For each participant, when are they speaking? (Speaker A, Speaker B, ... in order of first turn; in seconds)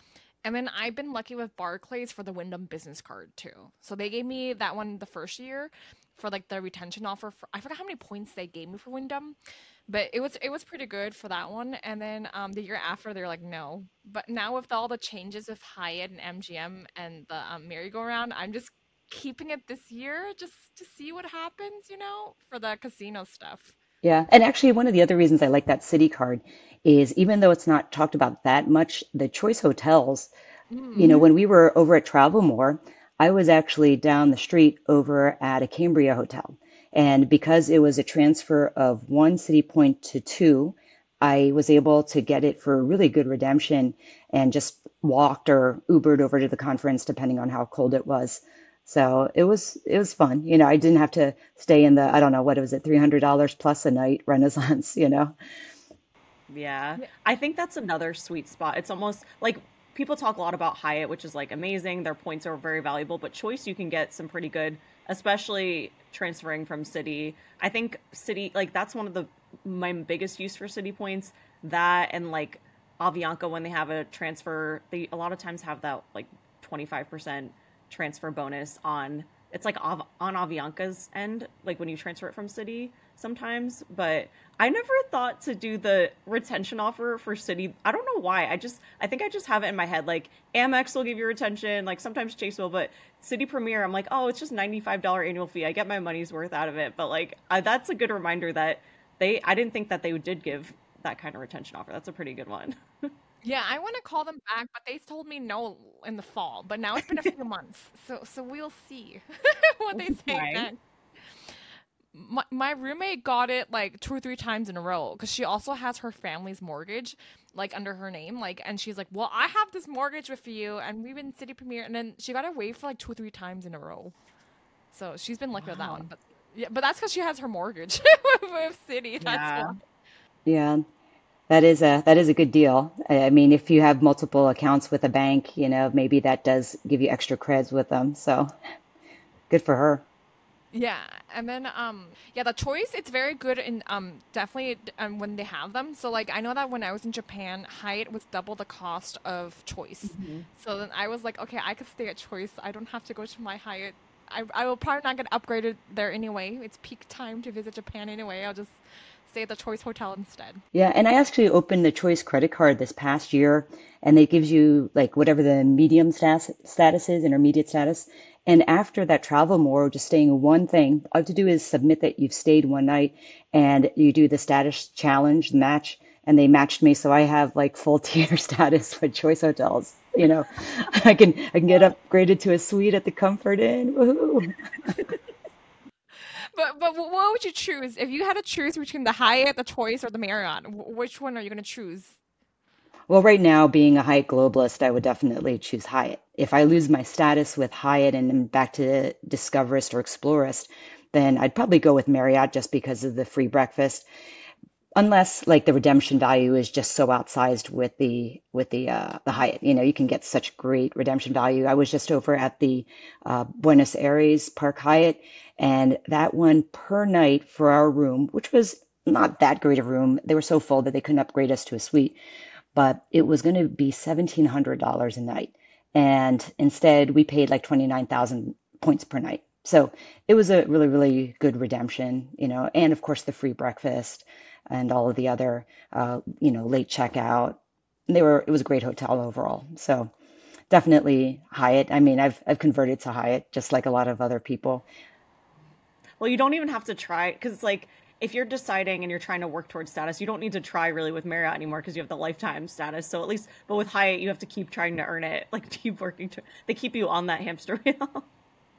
Speaker A: 0.4-9.3, 9.9-23.7, 30.7-31.2, 103.4-110.8, 112.1-124.1, 124.9-129.8, 140.7-160.6, 186.5-192.2
Speaker B: 24.0-30.3, 30.9-55.3, 130.4-130.8, 131.5-138.5, 139.5-140.0, 160.7-184.5, 193.1-204.0, 204.9-222.2, 222.7-240.1, 240.7-244.8
Speaker C: 56.5-103.1, 109.9-110.7, 125.6-126.0, 129.2-129.8, 150.1-150.4, 246.2-258.2